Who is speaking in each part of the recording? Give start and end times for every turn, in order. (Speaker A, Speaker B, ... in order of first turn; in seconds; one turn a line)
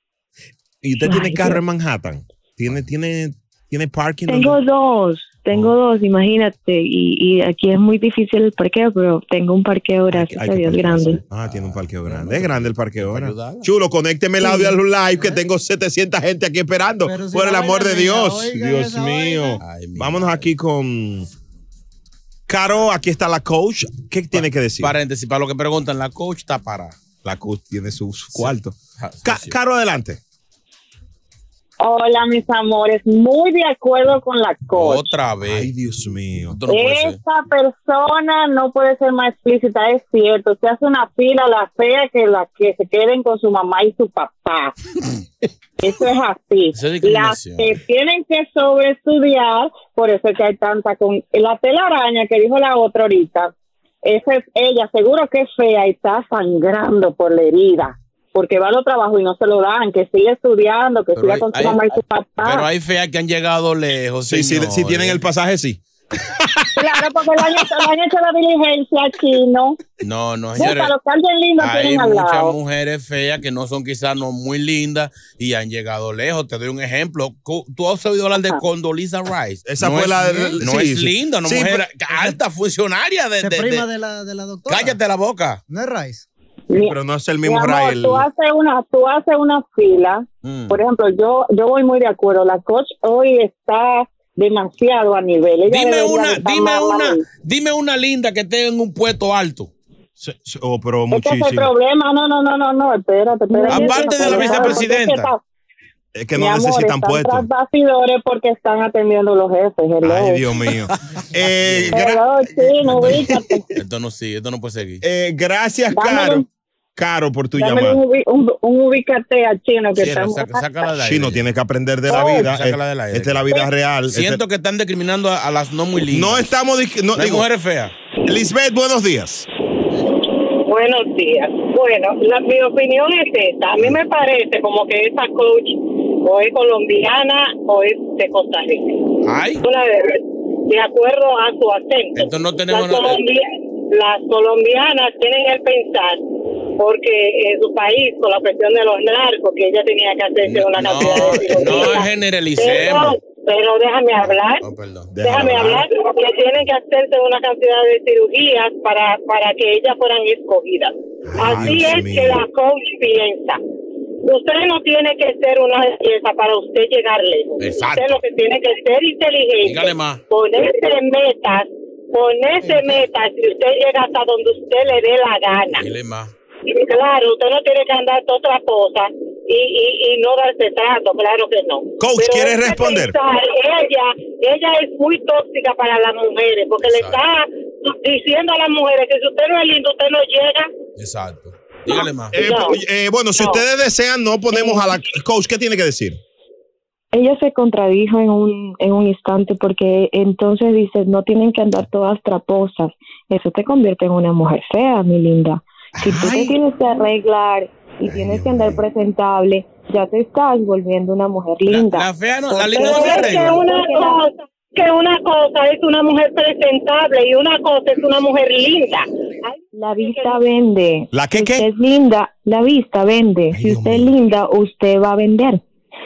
Speaker A: 0.8-4.6
Speaker B: 1.0-1.6
Speaker B: 4.3-11.2
Speaker A: 10.1-21.3
Speaker C: 11.4-13.7
Speaker B: 14.4-14.7
Speaker D: 17.0-19.6
Speaker C: 19.6-20.4
Speaker A: 22.5-24.9
Speaker C: 24.3-26.9
Speaker A: 27.2-30.2
Speaker C: 28.3-29.5
Speaker E: 31.8-35.1
Speaker C: 34.7-35.7
Speaker A: 35.4-36.6
Speaker C: 36.5-37.2
Speaker E: 36.7-44.7
Speaker E: 45.8-53.5
Speaker C: 46.7-47.8
Speaker E: 54.0-62.6
Speaker C: 61.1-65.2
Speaker A: 64.2-67.6
Speaker E: 66.8-69.8
Speaker C: 70.0-70.9
Speaker E: 70.5-72.5
Speaker C: 71.6-83.9
Speaker A: 79.7-81.8
Speaker D: 80.2-80.5
Speaker D: 83.4-85.0
Speaker C: 84.7-85.6
Speaker D: 85.7-86.2
Speaker E: 86.7-97.2
Speaker A: 86.8-88.3
Speaker C: 90.4-90.8
Speaker C: 95.7-99.7
Speaker A: 100.2-101.7
Speaker E: 101.1-105.4
Speaker B: 103.5-104.8
Speaker C: 103.7-105.3
Speaker A: 106.1-107.5
Speaker E: 106.3-110.4
Speaker A: 110.0-113.6
Speaker C: 111.6-112.0
Speaker E: 111.9-113.6
Speaker C: 112.9-113.2
Speaker C: 113.8-115.0
Speaker A: 115.0-116.4
Speaker E: 115.9-116.4
Speaker A: 117.0-118.0
Speaker E: 117.5-120.6
Speaker C: 120.0-121.4
Speaker A: 121.0-124.4
Speaker C: 122.1-126.5
Speaker A: 126.1-127.5
Speaker C: 127.1-127.9
Speaker A: 128.2-129.5
Speaker F: 130.7-139.0
Speaker C: 139.2-139.6
Speaker F: 139.6-146.2
Speaker C: 142.2-143.2
Speaker F: 146.8-154.6
Speaker C: 150.4-153.2
Speaker A: 151.1-151.5
Speaker C: 154.2-155.1
Speaker A: 155.1-155.8
Speaker F: 155.2-163.6
Speaker A: 161.3-162.4
Speaker C: 161.4-161.9
Speaker F: 164.2-175.8
Speaker C: 167.6-168.2
Speaker C: 169.6-170.2
Speaker C: 175.8-176.3
Speaker F: 176.7-190.7
Speaker A: 182.0-183.1
Speaker C: 186.8-187.2
Speaker C: 191.0-192.3
Speaker A: 192.3-196.2
Speaker F: 192.3-192.8
Speaker F: 193.4-193.6
Speaker B: 194.5-194.9
Speaker B: 197.1-214.2
Speaker A: 206.0-206.5
Speaker A: 208.1-208.8
Speaker C: 211.7-213.6
Speaker F: 212.6-220.3
Speaker B: 219.7-225.6
Speaker A: 221.1-221.6
Speaker A: 223.5-224.1